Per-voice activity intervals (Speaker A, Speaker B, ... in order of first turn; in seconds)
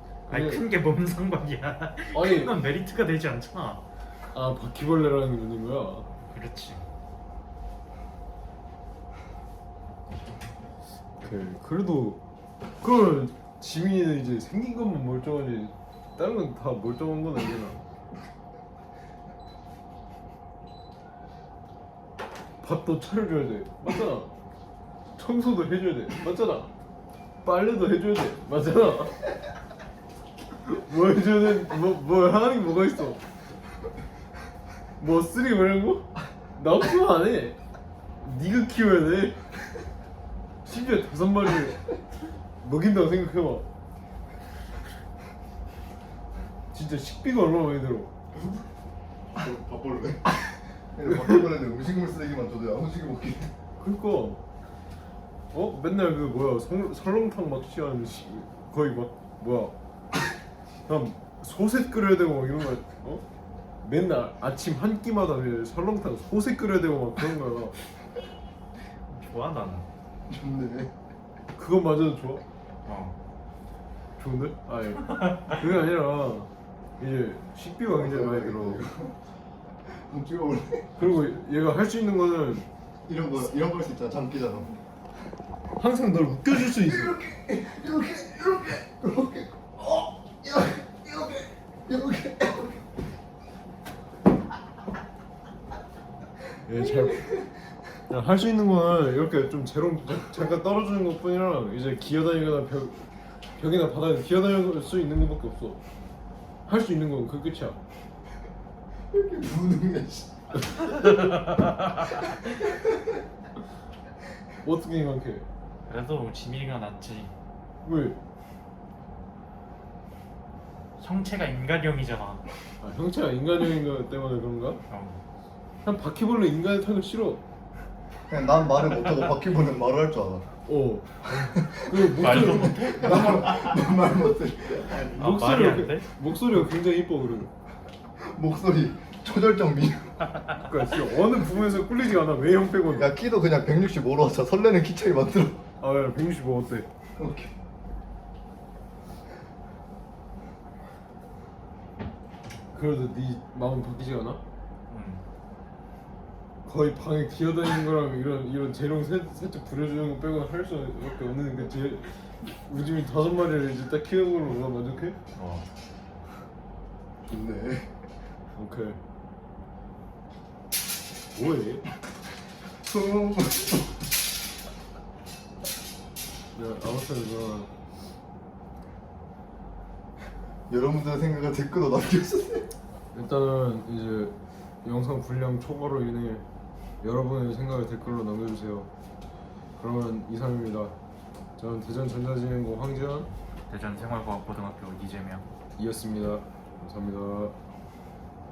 Speaker A: 0.3-0.6, 2.1-2.5, 4.3-6.1, 11.2-12.2, 12.8-17.8, 22.6-24.3, 25.1-26.7, 27.4-29.2, 30.6-33.2, 35.0-37.6, 38.2-39.4, 40.6-41.8, 42.6-43.6, 46.7-48.1, 53.8-54.4, 55.5-59.7, 60.9-63.2, 63.8-67.7, 71.5-72.4, 74.2-78.8, 81.0-82.7, 85.8-87.2, 96.7-97.3, 98.1-105.8, 106.7-107.8, 114.6-115.5, 117.8-118.2, 122.8-124.8, 125.8-127.4, 130.6-133.5, 135.1-137.5, 140.5-143.1, 145.8-146.9, 152.7-154.4, 156.6-165.2, 168.5-169.0, 171.3-171.9, 176.5-177.7, 183.1-186.4, 187.0-188.9, 189.8-190.9, 191.6-193.3, 195.8-197.6
Speaker B: 0.3-3.8, 6.3-6.8, 69.1-69.9, 72.8-73.2, 75.1-75.6, 111.0-112.3, 115.9-117.3, 121.0-122.4, 124.9-125.2, 132.1-133.8, 134.8-136.1, 154.9-155.2, 165.3-165.7, 193.7-195.4
Speaker C: 49.3-53.5, 70.3-70.9, 77.9-79.2, 79.9-81.1, 83.0-84.8, 86.7-92.8, 96.8-97.5, 109.1-110.9, 112.3-113.1, 128.3-130.5, 131.3-135.2, 138.2-140.3, 142.9-145.6, 147.2-147.5, 167.2-167.9, 172.7-174.0, 180.7-182.7